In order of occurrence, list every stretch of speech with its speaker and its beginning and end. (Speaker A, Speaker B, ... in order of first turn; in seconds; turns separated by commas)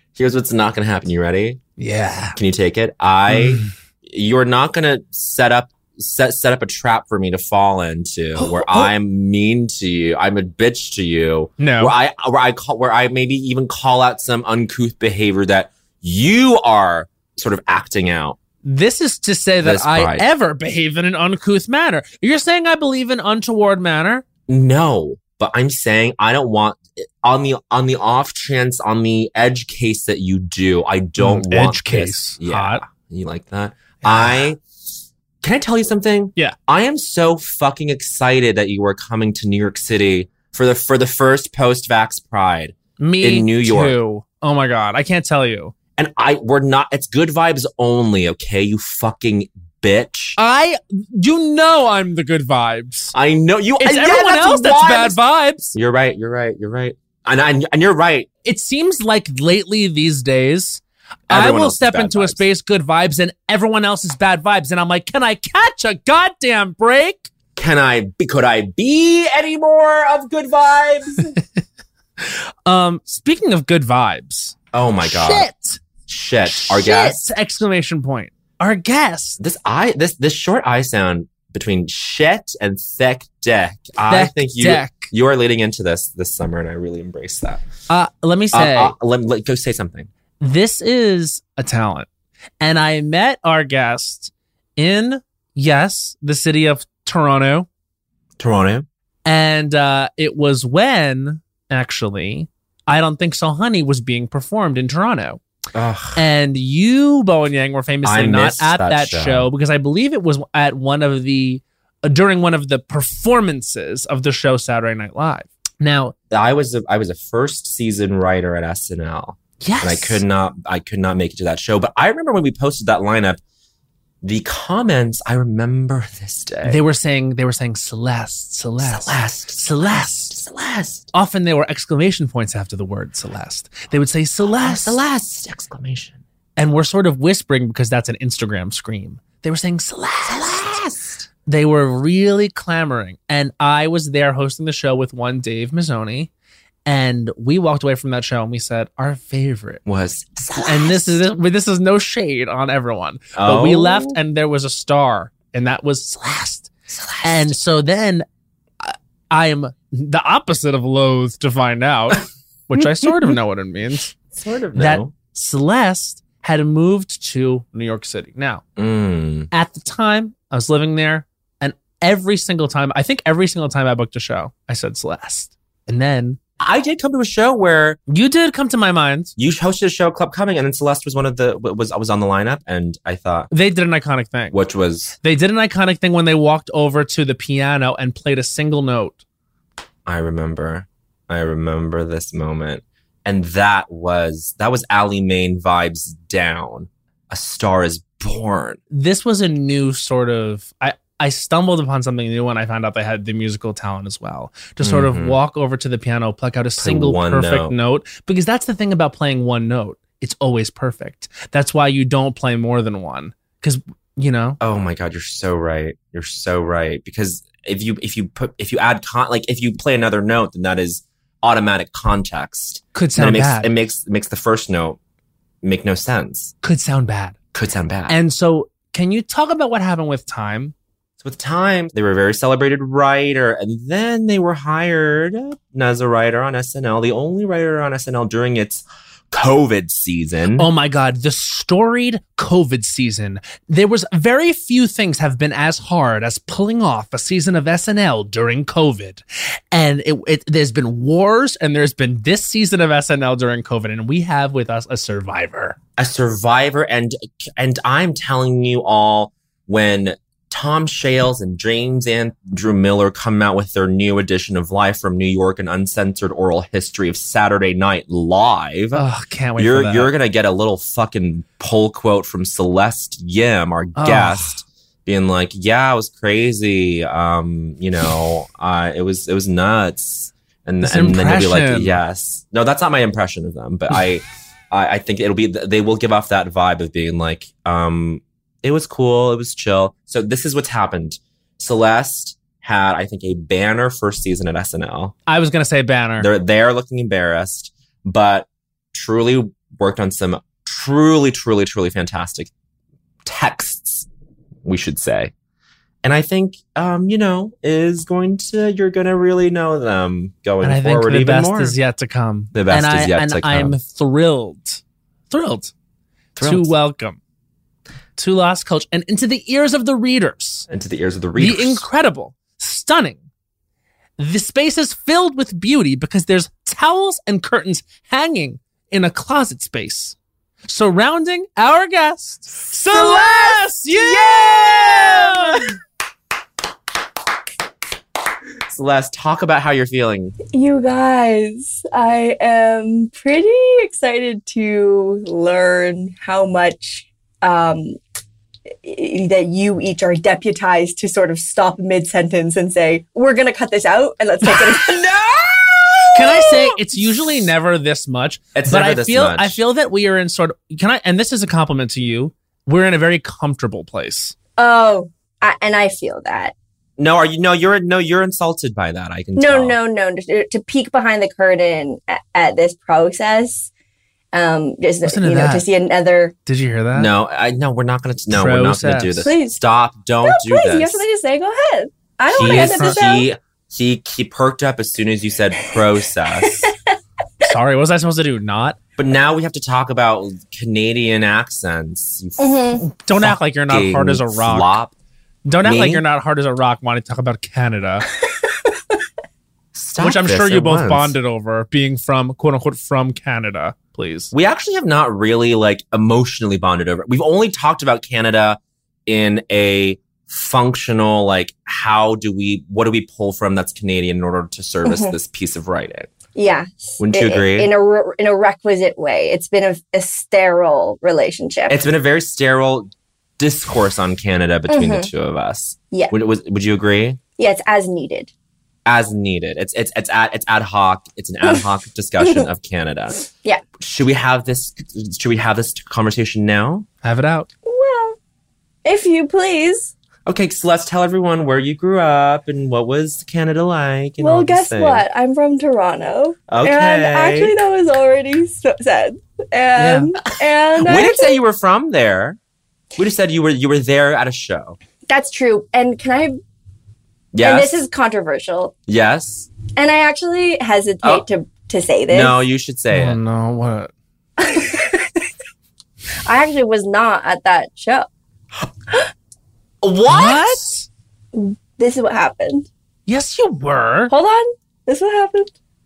Speaker A: 0.1-1.6, Speaker B: 1.8-2.4, Speaker A: 2.4-18.4, Speaker B: 3.3-3.7, Speaker B: 8.4-8.9, Speaker B: 11.6-11.9, Speaker B: 18.6-24.2, Speaker A: 19.6-20.3, Speaker A: 24.5-34.6, Speaker B: 31.2-32.8, Speaker B: 34.0-34.5, Speaker A: 35.4-44.0, Speaker B: 43.0-45.8, Speaker A: 46.0-50.4, Speaker B: 50.4-53.1, Speaker A: 53.1-55.2, Speaker B: 53.8-55.8, Speaker A: 55.7-58.3, Speaker B: 58.5-67.3, Speaker A: 61.3-62.5, Speaker A: 67.5-71.3, Speaker B: 72.2-75.8, Speaker A: 74.7-75.5, Speaker A: 76.1-77.2, Speaker B: 76.5-79.4, Speaker A: 79.4-87.6, Speaker B: 84.1-85.1, Speaker B: 87.9-88.9, Speaker A: 88.5-90.1, Speaker B: 90.4-92.1, Speaker B: 92.6-97.7, Speaker A: 98.4-98.9, Speaker B: 99.2-105.4, Speaker A: 105.7-106.2, Speaker B: 106.2-116.1, Speaker A: 108.0-109.5, Speaker A: 116.3-123.4, Speaker B: 119.6-120.2, Speaker A: 124.2-126.8, Speaker B: 126.6-130.4, Speaker A: 128.8-131.1, Speaker B: 131.1-135.0, Speaker A: 134.6-136.2, Speaker B: 136.6-140.7, Speaker A: 140.2-141.3, Speaker B: 141.5-146.3, Speaker B: 146.9-149.8, Speaker A: 149.8-151.2, Speaker B: 150.6-156.7, Speaker A: 153.3-154.2, Speaker A: 156.9-157.6, Speaker B: 157.2-158.2, Speaker B: 158.8-164.1, Speaker A: 164.3-165.1, Speaker B: 164.8-168.6, Speaker A: 168.8-169.5, Speaker B: 169.5-176.4, Speaker A: 176.6-178.0, Speaker B: 178.1-179.3, Speaker A: 179.4-183.5, Speaker B: 183.5-184.6, Speaker A: 184.5-185.1, Speaker B: 185.2-189.2, Speaker A: 190.1-198.8, Speaker B: 198.9-214.6, Speaker A: 204.8-205.4, Speaker A: 206.8-207.8, Speaker A: 214.6-225.0, Speaker B: 222.9-223.7, Speaker A: 225.6-226.5, Speaker B: 226.6-227.4, Speaker A: 227.5-228.2, Speaker B: 228.1-230.7, Speaker A: 231.2-240.7, Speaker B: 240.6-255.8, Speaker A: 256.0-269.0, Speaker B: 268.9-270.1, Speaker A: 269.6-295.1, Speaker B: 274.0-274.5, Speaker B: 280.8-281.9, Speaker B: 295.3-296.3, Speaker A: 296.2-302.5, Speaker A: 303.2-304.1, Speaker A: 304.6-305.3, Speaker A: 306.0-311.8, Speaker B: 310.6-315.7, Speaker A: 312.5-313.8, Speaker A: 316.4-316.7, Speaker B: 316.4-317.2, Speaker B: 318.2-320.7, Speaker A: 320.7-321.8, Speaker B: 321.4-323.2, Speaker B: 324.2-330.1, Speaker B: 330.7-335.6, Speaker C: 332.9-335.5, Speaker A: 338.7-340.4, Speaker C: 340.5-348.0, Speaker C: 348.8-355.1, Speaker A: 354.6-356.2, Speaker C: 356.1-356.6, Speaker B: 356.1-364.4, Speaker A: 358.5-359.6, Speaker C: 364.6-366.5, Speaker A: 367.0-369.8, Speaker C: 369.4-373.7, Speaker C: 374.3-376.4, Speaker B: 375.0-375.7, Speaker B: 376.5-377.1, Speaker A: 376.9-381.0, Speaker B: 378.3-379.3, Speaker C: 379.2-379.6, Speaker C: 380.2-383.3, Speaker A: 382.3-386.7, Speaker B: 382.4-383.0, Speaker B: 387.4-388.8, Speaker A: 389.0-394.9, Speaker C: 392.4-392.9, Speaker B: 392.8-394.8, Speaker B: 395.5-398.0, Speaker A: 395.6-396.0, Speaker A: 399.7-401.1, Speaker B: 400.0-404.3, Speaker A: 404.3-416.1, Speaker C: 414.8-415.1, Speaker C: 416.3-421.8, Speaker A: 417.0-417.7, Speaker A: 421.7-427.2, Speaker C: 424.7-425.1, Speaker C: 427.4-428.3, Speaker A: 428.9-433.2, Speaker A: 433.8-436.9, Speaker B: 437.0-437.5, Speaker C: 437.6-438.2, Speaker C: 438.8-439.9, Speaker A: 440.2-445.0, Speaker C: 444.2-451.4, Speaker A: 446.5-447.5, Speaker A: 450.8-452.4, Speaker A: 453.0-454.8, Speaker C: 455.1-456.4, Speaker A: 457.3-457.8, Speaker C: 457.4-458.7, Speaker A: 458.9-459.5, Speaker C: 459.8-462.4, Speaker A: 462.1-463.2, Speaker B: 462.9-463.9, Speaker C: 464.4-465.2, Speaker C: 466.2-468.1, Speaker A: 469.8-470.6, Speaker B: 470.1-470.9, Speaker C: 471.3-472.7, Speaker B: 473.1-474.1, Speaker C: 474.1-475.5